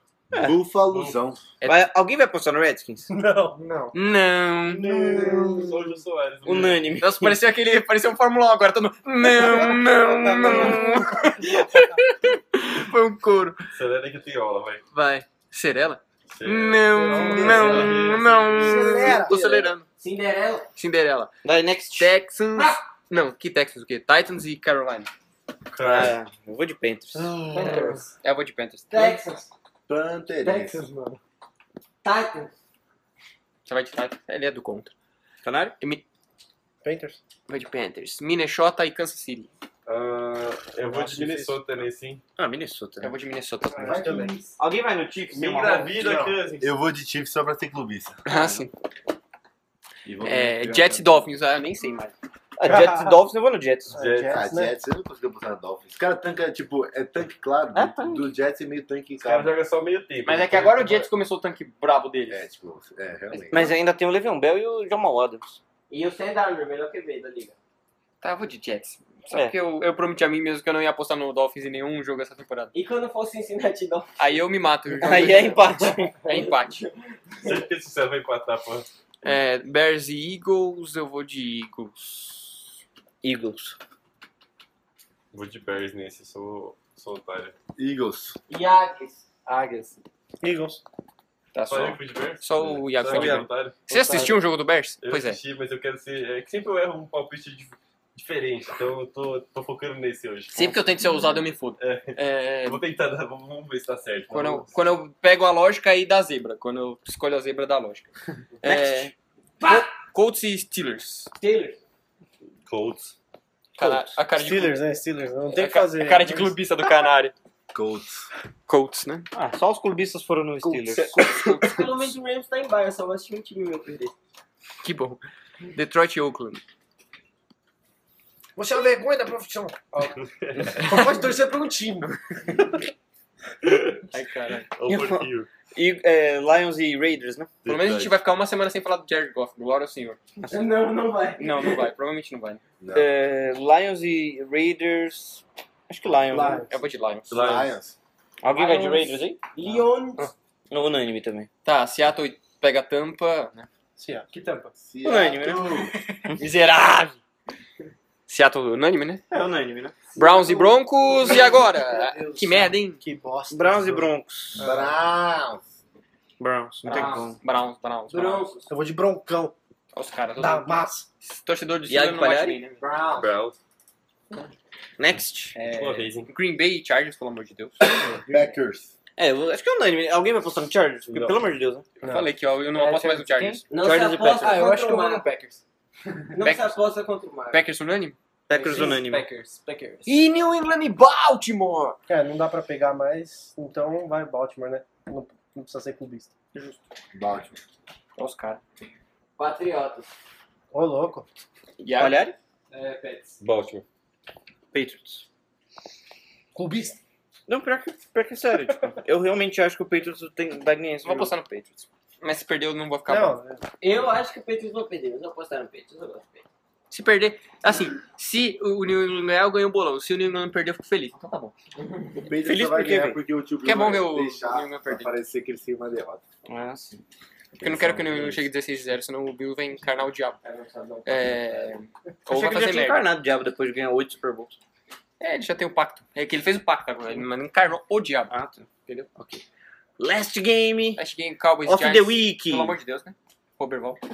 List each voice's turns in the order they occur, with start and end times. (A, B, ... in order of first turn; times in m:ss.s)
0:00.3-0:00.6 A
0:00.3-0:01.5 B
0:00.9-0:01.2 C
0:01.6-0:01.9 D
0:01.6-0:03.1 A
0:03.1-0:03.9 E
0:03.9-0:04.8 D
0:04.8-0:06.9 C
0:05.1-0:05.5 E
0:06.4-0:07.4 A
0:07.0-0:13.6 D
0:10.4-0:10.8 A
0:13.7-0:14.8 C
0:14.9-0:19.8 D
0:16.3-0:18.3 C
0:16.9-0:19.3 E
0:17.3-0:19.4 A
0:18.7-0:20.7 F
0:20.8-0:21.3 D
0:21.4-0:22.1 A
0:22.0-0:25.1 D
0:22.6-0:22.8 F
0:25.7-0:26.2 C
0:25.8-0:27.8 A
0:27.1-0:28.1 E
0:27.6-0:28.0 F
0:28.2-0:29.2 D
0:28.9-0:29.5 F
0:29.9-0:30.8 B
0:30.4-0:31.2 F
0:32.0-0:32.5 F
0:33.7-0:34.9 D
0:35.4-0:35.8 A
0:36.8-0:37.2 E
0:37.5-0:39.5 D
0:39.9-0:42.2 C
0:40.9-0:41.6 E
0:42.4-0:43.1 A
0:43.0-0:44.1 D
0:43.7-0:44.6 E
0:43.8-0:44.4 B
0:44.6-0:46.2 A
0:45.3-0:46.8 C
0:46.0-0:46.4 E
0:46.6-0:48.2 B
0:48.2-0:48.7 D
0:48.3-0:48.6 A
0:50.0-0:51.3 B
0:50.2-0:52.1 D
0:52.6-0:54.0 A
0:52.6-0:53.2 E
0:53.9-0:54.7 E
0:54.0-0:54.4 C
0:54.3-0:59.5 B
0:57.7-0:58.3 A
0:59.2-1:01.1 C
1:00.2-1:02.5 D
1:02.3-1:03.7 B
1:03.5-1:05.6 A
1:05.9-1:07.6 F
1:08.2-1:12.7 D
1:12.7-1:14.2 F
1:14.2-1:16.8 D
1:15.0-1:16.1 A
1:15.0-1:17.7 F
1:17.4-1:18.9 C
1:19.2-1:22.6 D
1:23.2-1:23.8 A
1:25.3-1:27.5 C
1:27.8-1:28.4 B
1:28.5-1:29.2 F
1:29.5-1:30.8 E
1:31.5-1:35.4 D
1:31.7-1:34.3 C
1:33.1-1:33.5 A
1:33.9-1:34.3 E
1:35.0-1:40.8 C
1:40.5-1:42.8 D
1:41.8-1:44.8 C
1:44.3-1:48.1 D
1:48.6-1:49.1 D
1:48.6-1:49.1 A
1:49.6-1:49.9 F
1:49.6-1:51.3 D
1:51.4-1:51.8 F
1:52.7-1:53.1 C
1:53.8-1:54.8 D
1:53.8-1:54.1 A
1:54.3-1:56.6 E
1:55.5-1:57.3 D
1:57.7-1:58.3 B
1:58.7-1:59.3 D
1:59.3-2:01.5 A
2:01.2-2:01.6 D
2:01.4-2:04.1 F
2:04.8-2:06.6 D
2:08.6-2:10.1 E
2:10.2-2:10.8 C
2:10.7-2:12.7 E
2:10.9-2:11.2 D
2:13.6-2:14.1 C
2:14.1-2:14.7 D
2:14.8-2:15.5 C
2:14.9-2:17.5 A
2:17.6-2:18.2 C
2:17.7-2:20.2 D
2:20.5-2:21.8 F
2:21.4-2:22.6 D
2:22.8-2:23.1 B
2:22.9-2:26.7 A
2:26.2-2:26.7 E
2:26.7-2:27.3 D
2:27.3-2:27.8 C
2:27.3-2:28.0 B
2:28.4-2:29.4 A
2:28.5-2:30.3 F
2:30.7-2:31.5 A
2:31.6-2:33.7 D
2:34.0-2:34.7 E
2:34.8-2:35.9 B
2:35.0-2:35.7 A
2:36.1-2:37.2 D
2:38.3-2:39.2 D
2:39.3-2:40.1 A
2:40.1-2:43.0 D
2:41.1-2:44.9 E
2:43.5-2:44.6 A
2:44.6-2:45.7 B
2:46.4-2:47.4 A
2:46.8-2:47.4 F
2:46.8-2:48.5 D
2:48.1-2:48.7 F
2:48.7-2:49.5 E
2:50.0-2:52.8 D
2:50.4-2:51.1 E
2:51.9-2:52.6 A
2:52.8-2:53.3 F
2:53.2-2:53.6 C
2:55.0-2:55.6 A
2:55.6-2:55.9 F
2:55.7-2:56.3 C
2:55.9-2:57.8 D
2:57.9-2:58.5 E
2:58.1-2:58.9 B
2:59.2-3:01.9 A
3:01.1-3:01.4 C
3:02.0-3:02.3 E
3:02.1-3:03.7 D
3:02.8-3:04.7 A
3:03.7-3:05.3 F
3:04.4-3:05.6 D
3:06.3-3:07.6 F
3:06.4-3:06.8 D
3:07.5-3:08.2 D
3:08.5-3:09.3 A
3:08.5-3:10.2 F
3:10.0-3:12.0 D
3:12.1-3:16.3 E
3:16.5-3:16.8 D
3:17.1-3:17.6 B
3:18.2-3:18.6 D
3:19.4-3:20.1 F
3:20.7-3:21.3 E
3:21.8-3:22.2 D
3:22.0-3:22.4 A
3:22.7-3:23.4 F
3:23.4-3:23.8 C
3:24.7-3:25.2 A
3:26.6-3:27.0 E
3:27.5-3:31.3 A
3:31.0-3:33.4 D
3:33.1-3:33.6 E
3:33.8-3:36.4 F
3:36.9-3:41.5 D
3:41.8-3:42.2 F
3:42.2-3:46.2 B
3:42.4-3:43.2 A
3:43.6-3:45.2 D
3:46.5-3:47.0 A
3:47.6-3:48.4 B
3:47.6-3:50.4 D
3:50.4-3:51.8 F
3:51.0-3:53.1 D
3:52.3-3:54.6 A
3:55.2-3:58.3 D
3:58.3-3:59.4 A
4:00.0-4:01.0 A
4:01.0-4:04.0 D
4:01.7-4:02.8 A